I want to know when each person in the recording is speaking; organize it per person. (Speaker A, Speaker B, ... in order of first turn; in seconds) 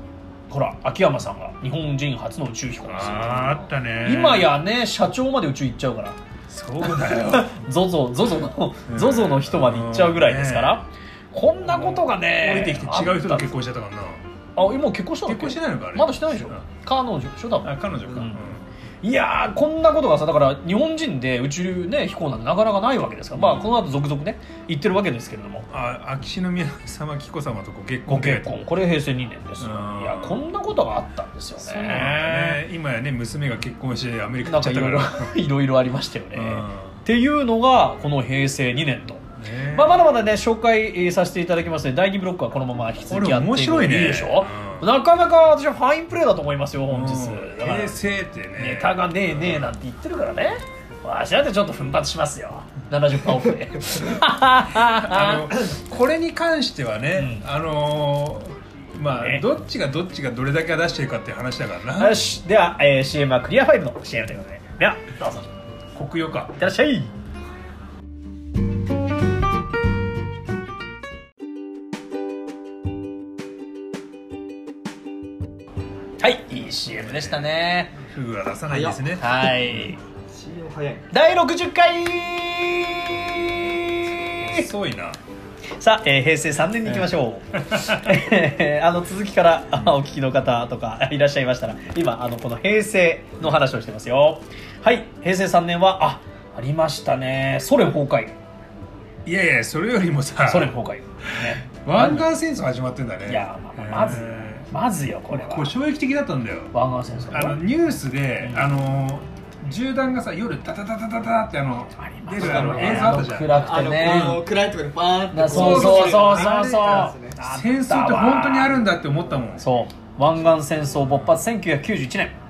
Speaker A: 0.5-6.2, 6.8-13.5, 14.6-18.4, 19.0-25.7, 28.1-32.6, 34.5-48.0, 48.6-55.7, 57.1-57.4, 59.2-59.5, 62.0-65.5, 66.6-67.1, 76.2-78.0, 79.2-80.0, 81.1-84.7, 85.8-98.3, 100.5-102.3, 103.3-105.8, 106.7-107.6, 112.0-114.4, 115.3-118.8, 119.6-122.3
Speaker B: 2.8-4.5, 6.5-7.6, 8.9-10.8, 11.6-14.2, 15.3-16.6, 17.6-18.6, 23.3-23.8, 25.7-28.5, 29.6-30.5, 31.6-35.3, 36.3-37.0, 39.4-40.1, 43.0-44.9, 46.9-49.8, 54.9-62.2, 65.9-66.6, 77.0-79.9, 84.4-85.2, 86.9-88.1, 99.2-104.7, 105.3-106.7, 107.3-114.5, 115.5-119.7, 121.0-121.3
Speaker C: 78.7-79.0, 80.3-81.1, 112.4-117.4